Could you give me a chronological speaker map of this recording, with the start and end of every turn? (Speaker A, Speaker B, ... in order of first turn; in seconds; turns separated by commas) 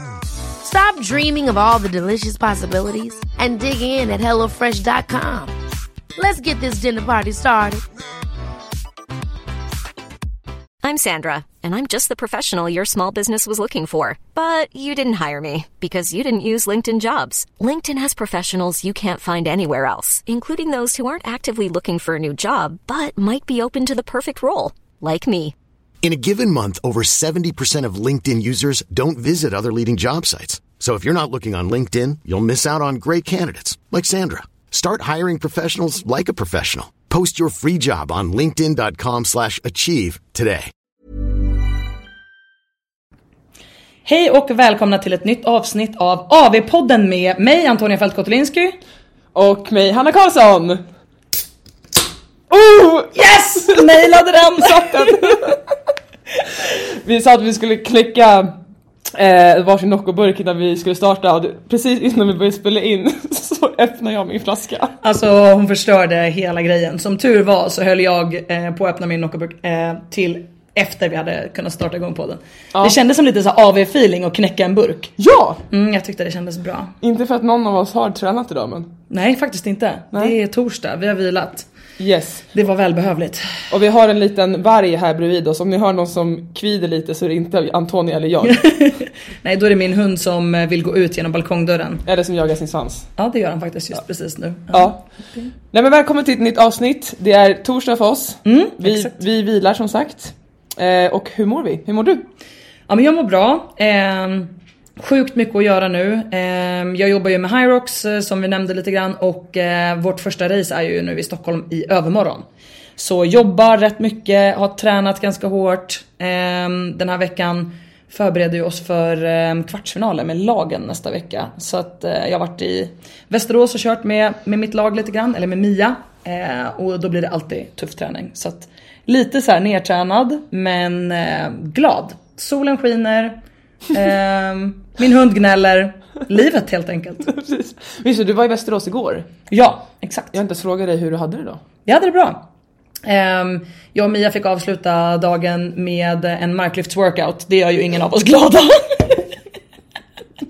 Speaker A: 0.6-5.5, Speaker A: 6.2-7.8, Speaker B: 10.8-25.5, Speaker C: 26.0-40.7, Speaker D: 44.0-48.8, Speaker E: 49.3-50.8, Speaker E: 52.5-55.6, Speaker D: 53.1-55.4, Speaker E: 56.6-58.5, Speaker E: 59.1-65.0, Speaker D: 65.0-75.1, Speaker E: 75.2-75.6, Speaker D: 75.7-76.9, Speaker E: 77.0-78.9, Speaker D: 79.1-81.7, Speaker E: 82.0-82.4, Speaker D: 82.5-83.7, Speaker E: 83.7-88.6, Speaker D: 88.4-92.0, Speaker E: 92.0-93.1, Speaker D: 93.2-95.5, Speaker E: 94.7-95.0, Speaker E: 95.7-102.2, Speaker D: 98.4-99.1, Speaker D: 102.9-112.4, Speaker D: 113.0-133.4, Speaker D: 133.9-137.3, Speaker E: 137.2-139.3, Speaker D: 139.5-140.4, Speaker E: 140.3-141.6, Speaker D: 141.8-142.4, Speaker D: 143.0-149.3